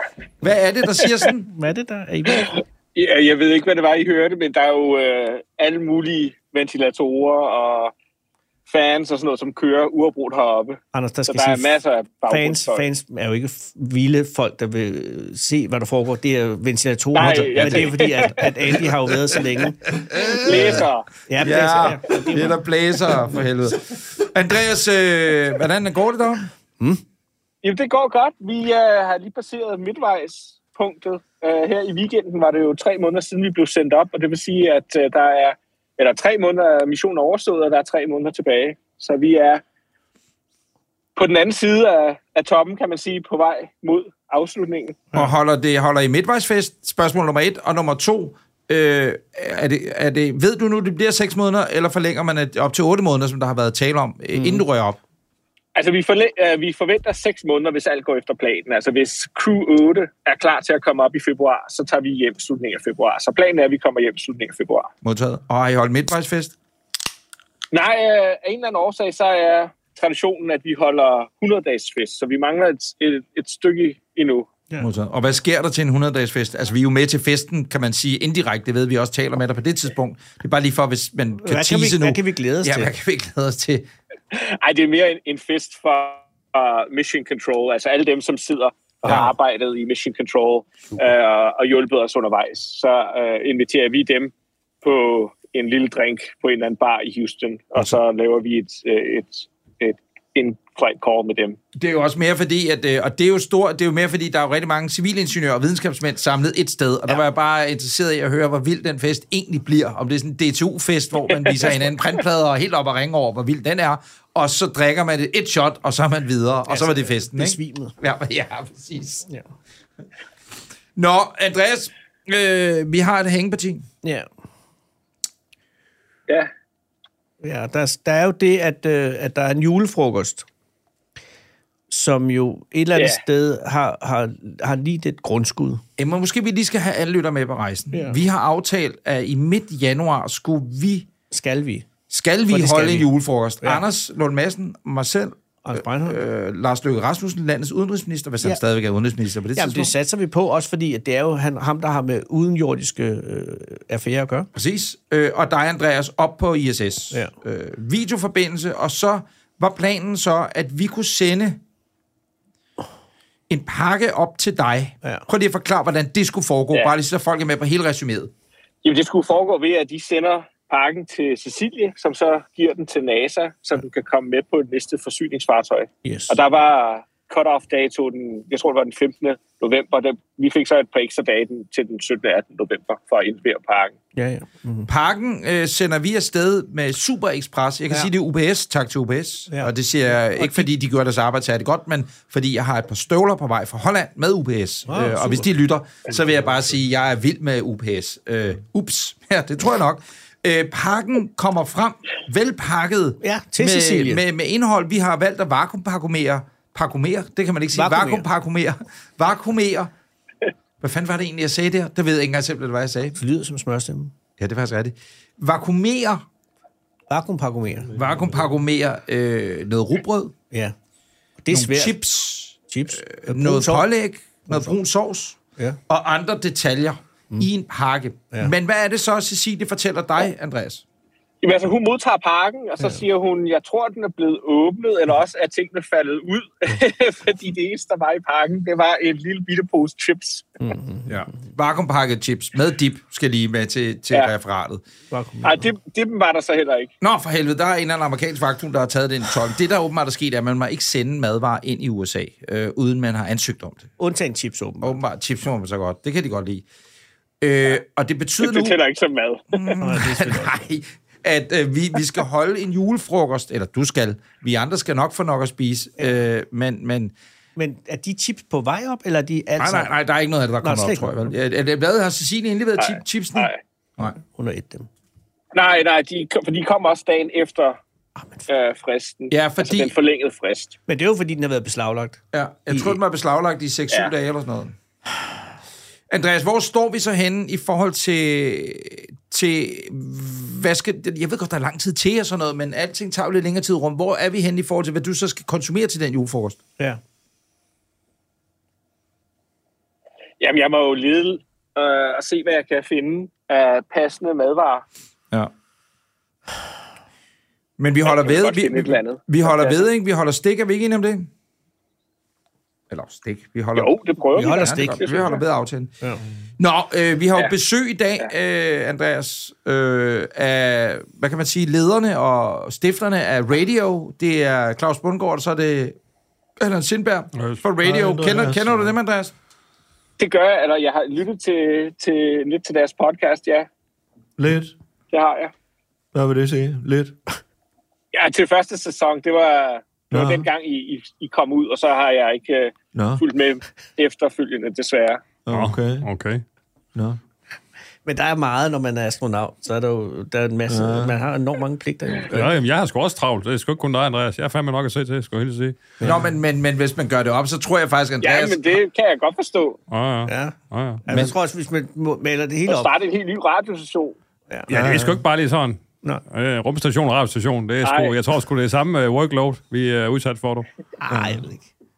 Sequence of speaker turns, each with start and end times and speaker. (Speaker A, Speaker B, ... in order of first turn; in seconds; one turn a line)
Speaker A: 0.4-1.5
Speaker B: 1.5-2.5
Speaker C: 2.4-7.9
Speaker C: 8.7-12.9
Speaker B: 10.9-19.8
Speaker C: 17.1-18.6
Speaker A: 20.2-20.6
Speaker C: 20.3-21.1
Speaker B: 21.2-22.5
Speaker A: 21.4-26.5
Speaker C: 27.6-39.6
Speaker C: 41.1-45.1
Speaker A: 45.1-55.0
Speaker B: 54.3-54.6
Speaker C: 55.7-64.9
Speaker A: 65.0-66.5
Speaker C: 67.7-74.5
Speaker A: 74.8-83.9
Speaker B: 81.4-82.9
Speaker C: 84.3-94.3
Speaker B: 89.0-89.3
Speaker C: 94.8-101.6
Speaker A: 101.8-119.2
Speaker B: 116.7-117.9
Speaker A: 121.0-123.8
Speaker B: 124.0-124.3
Speaker B: 127.4-130.5
Speaker B: 131.9-135.8
Speaker C: 132.9-133.2
Speaker A: 136.0-141.1
Speaker B: 137.9-138.2
Speaker B: 141.3-141.9
Speaker A: 142.1-149.9
Speaker B: 142.5-143.1
Speaker B: 145.6-146.2
Speaker B: 149.5-154.5
Speaker A: 154.5-161.6
Speaker A: 163.5-168.3
Speaker C: 168.8-183.9
Speaker B: 176.0-176.4
Speaker B: 184.2-184.9
Speaker A: 184.9-209.9
Speaker B: 190.3-190.7
Speaker B: 194.9-195.5
Speaker B: 203.2-204.2
Speaker B: 207.7-208.3
Speaker A: 210.8-213.2
Speaker B: 213.1-214.1
Speaker A: 214.4-216.2
Speaker B: 217.1-217.9
Speaker D: 217.8-218.6
Speaker A: 217.9-220.3
Speaker B: 221.4-222.0
Speaker A: 221.5-225.4
Speaker B: 222.7-223.9
Speaker B: 224.4-224.7
Speaker A: 225.9-230.8
Speaker C: 231.4-240.5
Speaker B: 240.6-241.1
Speaker A: 241.1-244.8
Speaker B: 245.1-245.7
Speaker C: 245.4-246.9
Speaker A: 247.0-253.9
Speaker B: 254.0-255.0
Speaker A: 254.8-256.6
Speaker A: 257.4-258.8
Speaker C: 258.4-259.7
Speaker A: 259.5-267.1
Speaker B: 259.8-260.6
Speaker B: 267.6-269.9
Speaker A: 269.6-274.1
Speaker B: 270.6-271.3
Speaker C: 272.8-273.6
Speaker B: 274.0-274.9
Speaker C: 275.5-277.8
Speaker B: 278.2-278.4
Speaker C: 278.5-280.8
Speaker A: 279.3-279.9
Speaker B: 280.9-283.0
Speaker A: 282.3-284.7
Speaker A: 286.1-296.6
Speaker C: 300.4-304.8
Speaker A: 307.8-311.3
Speaker C: 308.0-309.9
Speaker A: 312.9-313.9
Speaker C: 313.7-315.4
Speaker B: 314.3-315.1
Speaker A: 314.5-315.9
Speaker A: 316.6-326.0
Speaker A: 326.6-329.3
Speaker E: 327.3-327.6
Speaker D: 327.8-328.9
Speaker C: 330.2-333.7
Speaker D: 334.4-334.7
Speaker C: 335.1-335.5
Speaker D: 336.1-337.2
Speaker C: 338.1-345.2
Speaker D: 340.1-340.5
Speaker D: 342.9-343.2
Speaker D: 345.4-346.1
Speaker E: 345.5-346.4
Speaker D: 346.9-347.2
Speaker B: 348.0-352.5
Speaker D: 350.7-351.2
Speaker E: 352.3-355.9
Speaker A: 356.0-358.7
Speaker C: 358.2-359.8
Speaker E: 359.9-361.0
Speaker B: 360.3-362.9
Speaker C: 362.7-364.2
Speaker D: 364.7-365.2
Speaker E: 364.7-370.7
Speaker C: 367.8-368.2
Speaker B: 371.0-371.7
Speaker D: 371.1-371.5